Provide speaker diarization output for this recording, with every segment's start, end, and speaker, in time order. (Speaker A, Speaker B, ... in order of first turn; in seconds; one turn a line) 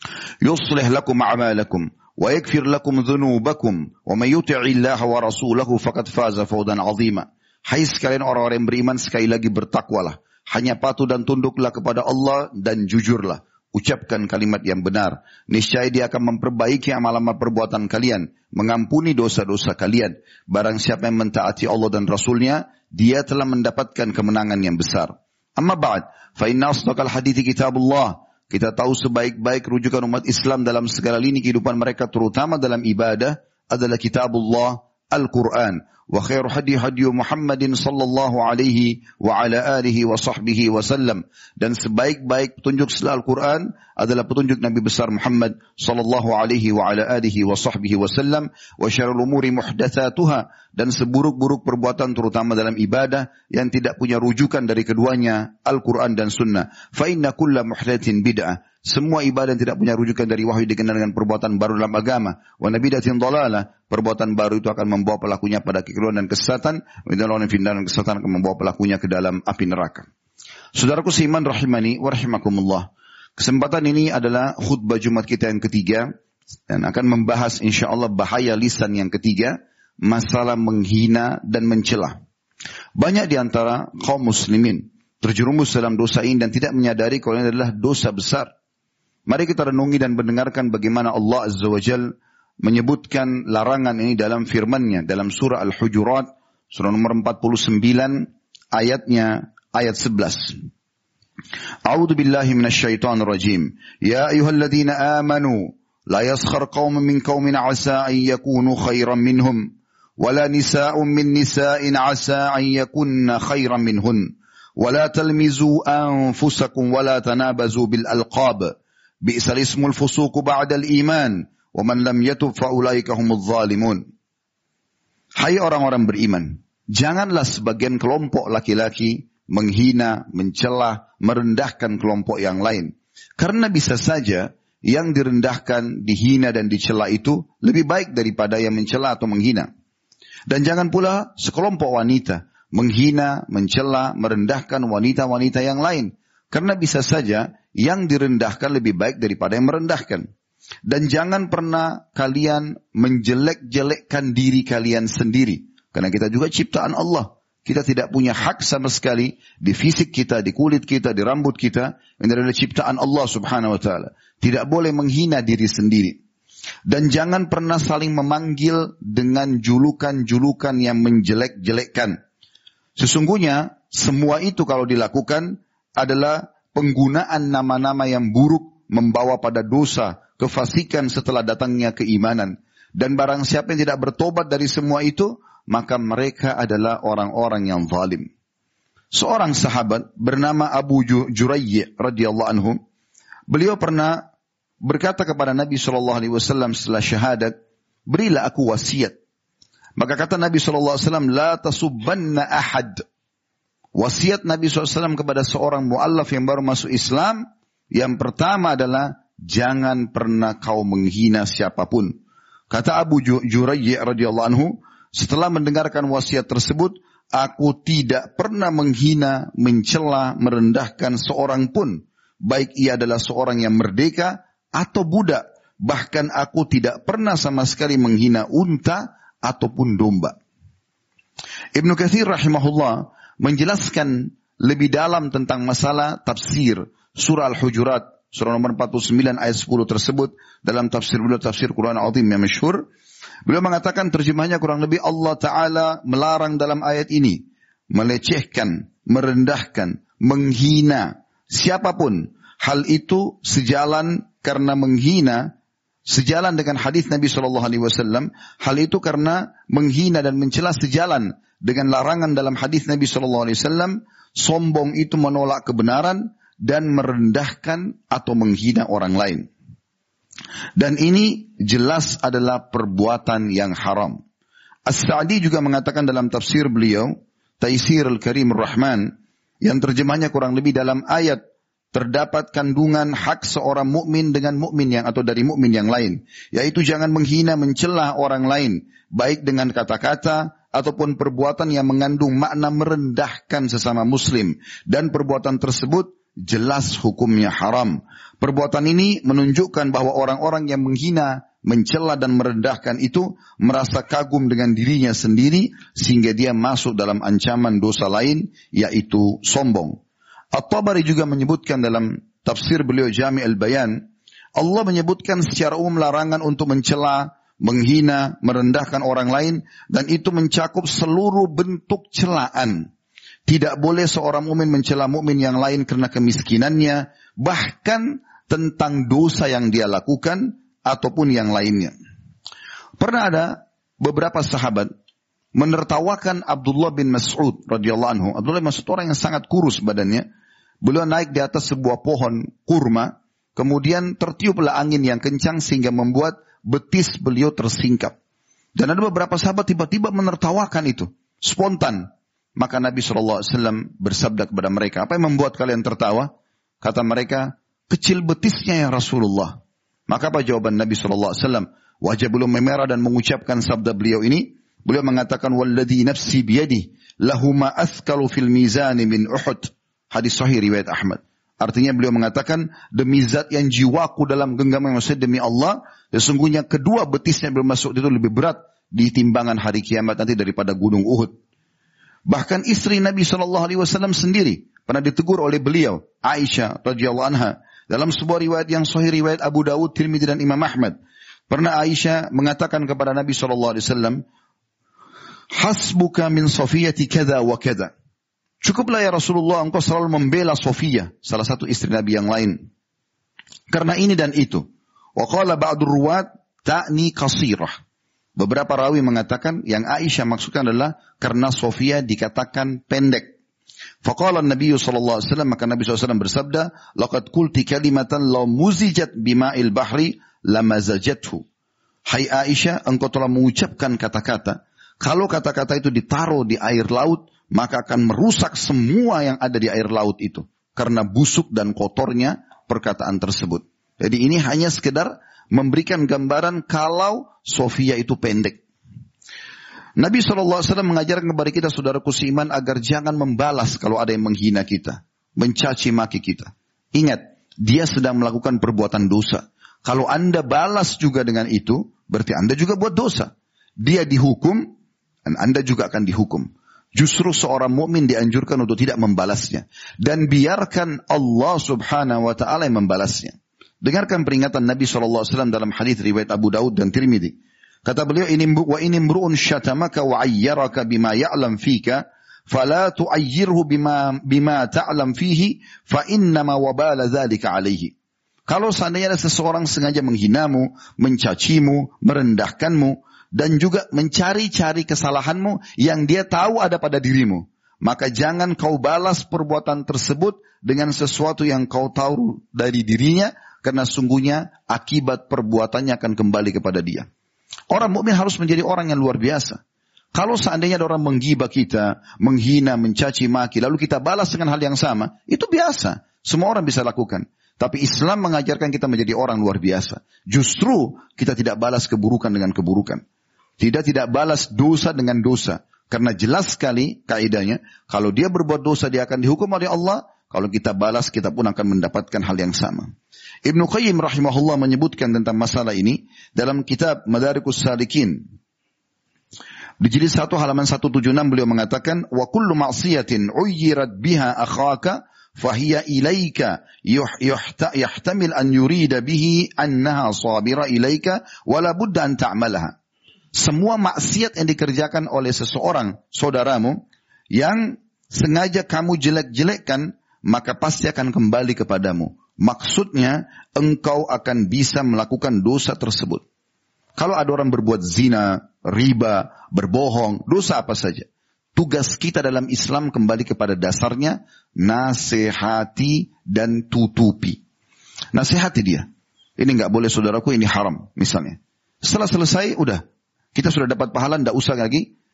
Speaker A: 0.4-70.1
Speaker A: 70.8-76.1
Speaker A: 76.7-82.2
Speaker A: 83.0-88.5
Speaker A: 89.3-100.6
Speaker A: 101.8-124.0
Speaker A: 125.4-139.7
Speaker A: 140.5-150.2
Speaker A: 150.8-166.2
Speaker A: 166.9-172.2
Speaker A: 173.0-188.3
Speaker A: 189.1-192.8
Speaker A: 193.5-194.2
Speaker A: 194.8-197.5
Speaker A: 198.1-199.2
Speaker A: 200.0-203.0
Speaker A: 203.9-212.1
Speaker A: 212.7-230.3
Speaker A: 231.7-242.8
Speaker A: 243.4-247.4
Speaker A: 247.9-255.5
Speaker A: 256.1-269.5
Speaker A: 270.8-274.2
Speaker A: 274.9-279.1
Speaker A: 279.6-281.4
Speaker A: 281.9-310.0
Speaker A: 310.5-314.0
Speaker A: 314.6-322.9
Speaker A: 323.5-331.9
Speaker A: 333.0-334.9
Speaker A: 335.5-340.2
Speaker A: 340.8-348.1
Speaker A: 348.8-356.3
Speaker A: 356.8-359.6
Speaker A: 360.1-381.3
Speaker A: 382.3-390.9
Speaker A: 391.5-394.2
Speaker A: 395.5-397.9
Speaker A: 398.6-402.6
Speaker A: 403.7-404.6
Speaker A: 405.1-407.8
Speaker A: 408.4-413.3
Speaker A: 414.0-421.4
Speaker A: 422.1-438.6
Speaker A: 440.0-454.6
Speaker A: 455.2-477.9
Speaker A: 478.5-497.1
Speaker A: 497.7-499.6
Speaker A: 500.1-513.0
Speaker A: 513.6-522.9
Speaker A: 523.4-528.2
Speaker A: 529.8-542.7
Speaker A: 543.3-546.8
Speaker A: 547.3-556.2
Speaker A: 557.0-567.4
Speaker A: 568.1-568.9
Speaker A: 569.4-572.8
Speaker A: 573.3-574.9